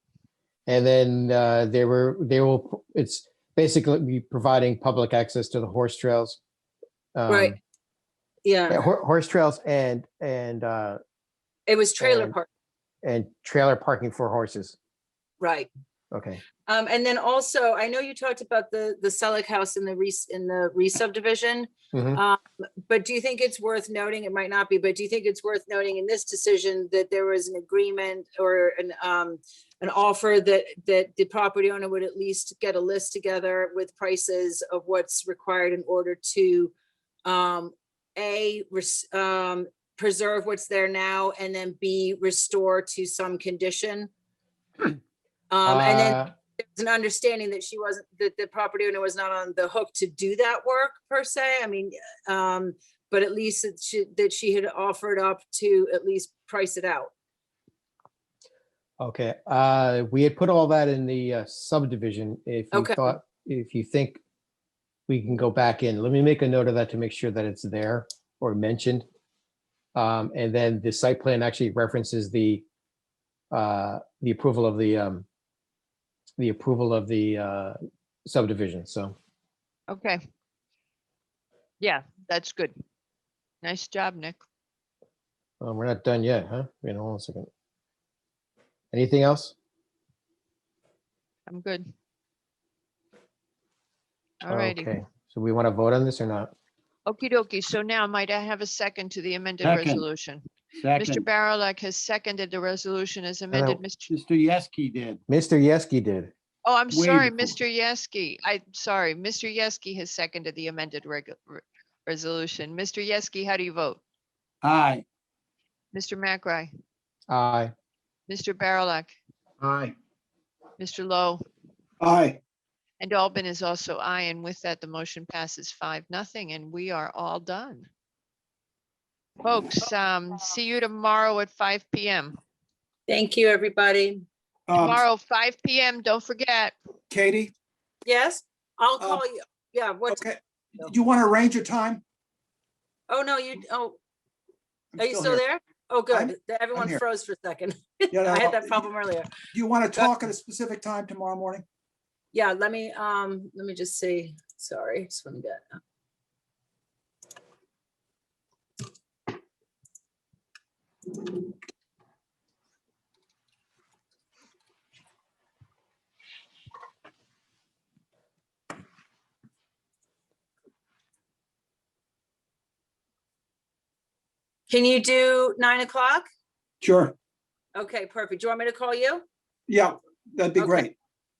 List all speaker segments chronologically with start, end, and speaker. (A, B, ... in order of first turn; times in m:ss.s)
0:00.7-0:06.4 A
0:07.1-0:07.6 A
0:07.3-0:07.6 B
0:08.4-0:08.8 B
0:08.7-0:11.0 A
0:11.7-0:12.5 B
0:12.0-0:12.4 A
0:13.0-0:14.8 A
0:15.4-0:15.7 B
0:16.1-0:16.4 A
0:16.7-0:36.7 B
0:21.9-0:22.2 A
0:37.2-0:44.1 B
0:45.5-0:46.2 B
0:45.6-0:46.3 A
0:46.7-0:57.1 B
0:59.0-1:04.2 A
1:02.7-1:03.1 B
1:05.1-1:09.0 A
1:09.9-1:12.6 A
1:13.5-1:15.2 A
1:16.4-1:19.1 A
1:19.9-1:20.2 C
1:21.8-1:22.7 C
1:23.6-1:24.4 C
1:25.6-1:27.5 A
1:28.9-1:29.5 A
1:31.5-1:31.9 C
1:34.4-1:34.9 C
1:34.5-1:36.5 A
1:37.0-1:44.1 C
1:39.6-1:40.1 D
1:40.8-1:41.3 D
1:43.5-1:43.8 A
1:44.1-1:45.2 D
1:45.3-1:46.3 A
1:46.6-1:54.0 C
1:46.9-1:47.5 D
1:54.6-1:55.0 D
1:55.9-1:56.7 C
1:57.3-1:57.7 A
1:58.3-1:59.1 C
1:59.6-1:59.9 E
2:00.8-2:01.4 C
2:02.0-2:02.4 E
2:03.0-2:07.9 C
2:09.4-2:12.4 C
2:13.1-2:14.2 B
2:14.7-2:15.0 E
2:14.8-2:16.7 C
2:17.1-2:17.5 E
2:18.0-2:20.2 B
2:20.1-2:22.0 E
2:23.1-2:24.0 B
2:24.9-2:25.4 E
2:25.0-2:29.3 B
2:26.1-2:27.0 E
2:28.1-2:28.9 E
2:29.5-2:31.6 E
2:32.3-2:35.8 B
2:54.7-2:56.3 B
2:56.8-2:57.1 E
2:57.7-2:59.2 B
2:59.7-3:00.9 E
3:00.6-3:00.9 B